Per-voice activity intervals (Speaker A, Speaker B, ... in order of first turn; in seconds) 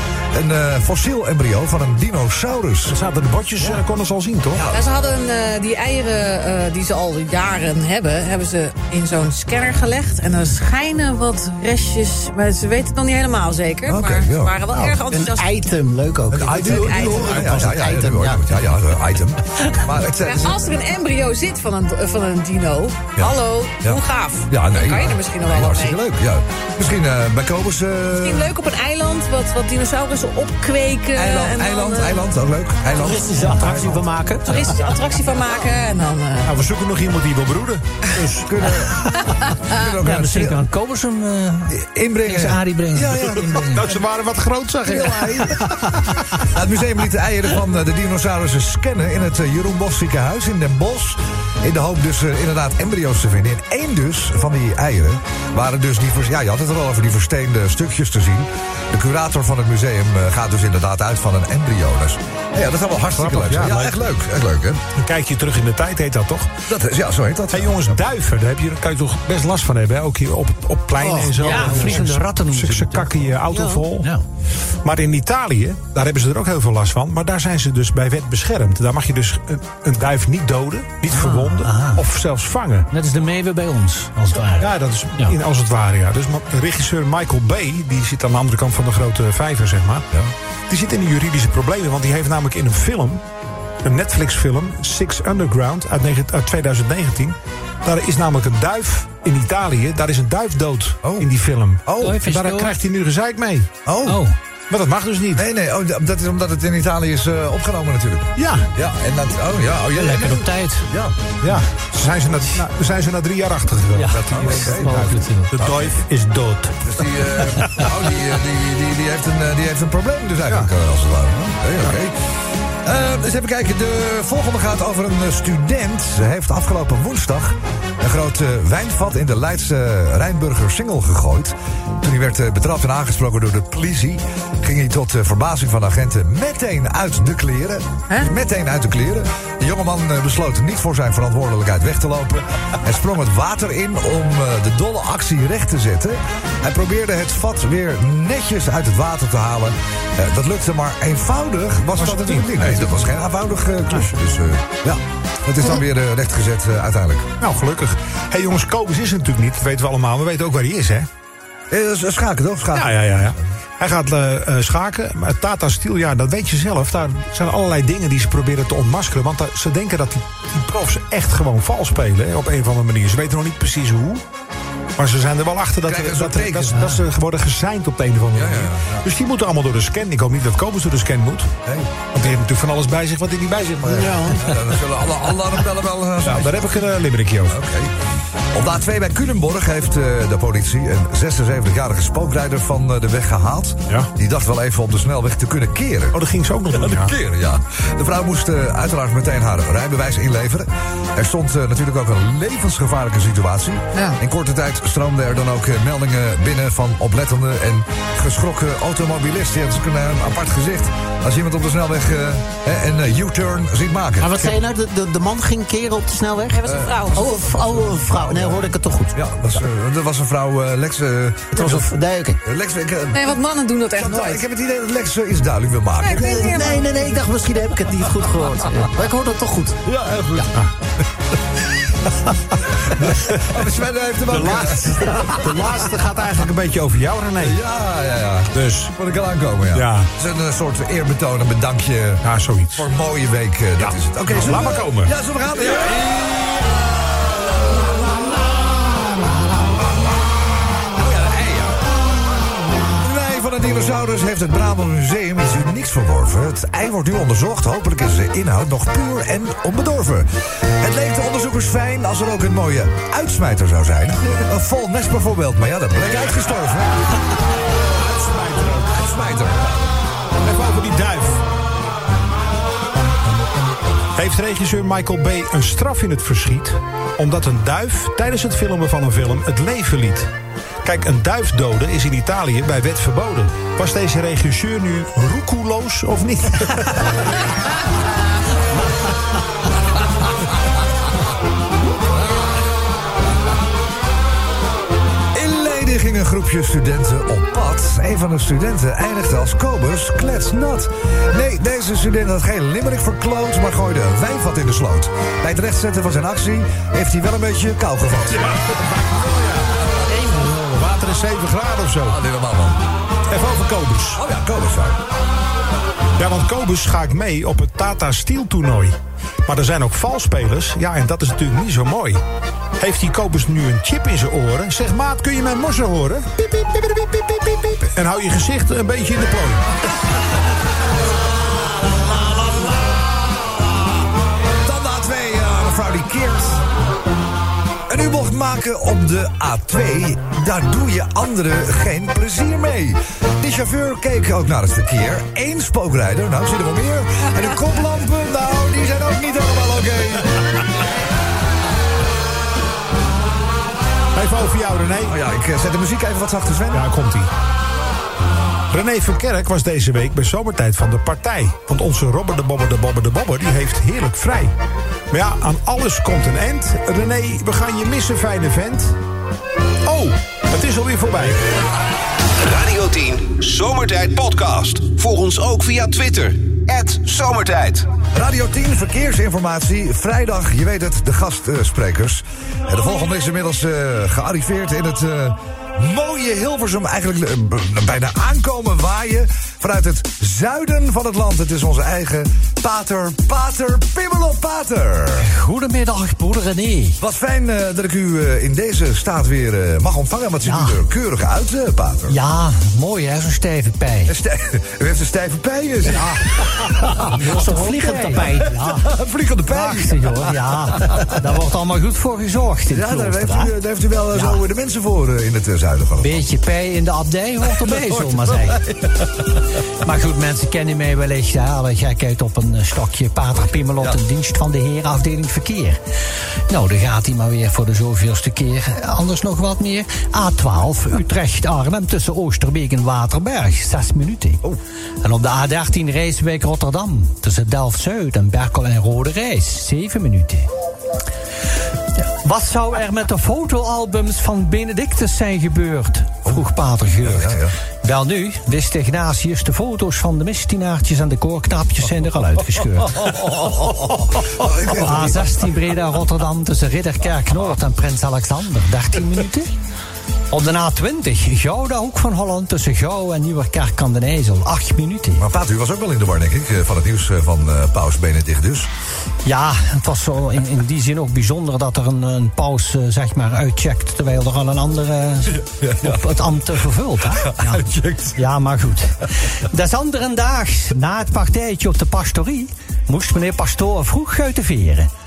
Speaker A: 0.3-3.0, 4.6-4.8, 13.9-14.8, 16.3-20.7, 23.2-28.5, 31.1-34.0, 38.2-39.0, 39.7-40.6, 41.7-43.8, 44.8-45.8, 46.4-64.8, 66.7-68.0, 101.0-101.3, 101.8-102.2, 103.9-104.2, 105.4-111.2, 114.1-116.0, 116.8-122.1, 122.8-157.3, 161.7-163.0, 175.8-176.9, 178.3-179.1, 181.6-181.9, 183.8-186.9, 187.5-187.9, 188.5-214.4, 216.6-221.9, 222.4-223.4, 223.9-226.6, 229.8-230.5, 232.9-235.5, 237.4-246.8, 250.9-251.8, 253.0-267.2, 268.8-269.9, 295.3-308.7, 312.1-312.8, 314.1-315.0, 334.6-336.6, 337.9-350.6, 355.1-356.9, 378.1-395.3, 397.0-402.2, 404.1-406.9, 408.6-411.1, 412.7-416.2, 417.6-419.1, 447.0-447.5, 453.1-455.3, 465.2-468.7, 475.3-476.1, 477.2-478.2
Speaker B: 2.9-4.6, 33.6-34.0, 36.4-37.9, 43.7-46.2, 63.1-64.0, 65.0-66.5, 67.5-74.1, 74.8-82.9, 84.6-90.1, 90.7-93.2, 93.8-103.7, 104.7-105.4, 108.4-108.7, 111.4-116.8, 117.4-117.9, 151.9-153.1, 157.4-161.1, 162.7-174.2, 175.0-181.5, 182.1-184.4, 186.2-187.6, 196.1-197.1, 234.3-237.6, 238.5-238.9, 239.7-240.1, 242.2-242.9, 243.8-245.1, 267.9-269.0, 270.4-271.4, 274.1-280.3, 280.8-287.1, 308.3-309.7, 310.2-312.2, 313.3-314.2, 316.2-322.2, 322.8-329.6, 354.1-355.1, 356.7-357.3, 358.7-364.5, 365.1-369.0, 369.9-371.4
Speaker C: 4.7-15.5, 16.5-17.4, 20.2-26.0, 28.1-32.2, 34.4-36.6, 39.4-39.8, 216.5-217.3, 223.1-224.4, 226.0-226.9
Speaker D: 14.7-18.4, 33.0-34.8, 71.0-71.9, 73.5-73.8, 183.9-184.4, 214.2-219.6, 221.5-222.4, 226.2-229.8, 407.3-408.3
Speaker E: 33.5-34.6, 40.0-43.9, 71.4-73.1, 81.1-82.0, 82.9-85.4, 102.0-102.7, 104.0-104.4, 109.9-110.9, 113.9-115.5, 176.7-177.0, 395.2-397.0, 400.4-400.8, 402.1-404.1, 407.1-408.9, 409.5-413.5, 414.1-414.4, 416.0-418.6, 419.8-425.8, 426.5-434.4, 435.0-440.5, 442.2-453.6, 454.7-459.5, 460.3-465.3, 469.2-477.6, 478.1-484.9
Speaker F: 372.4-377.9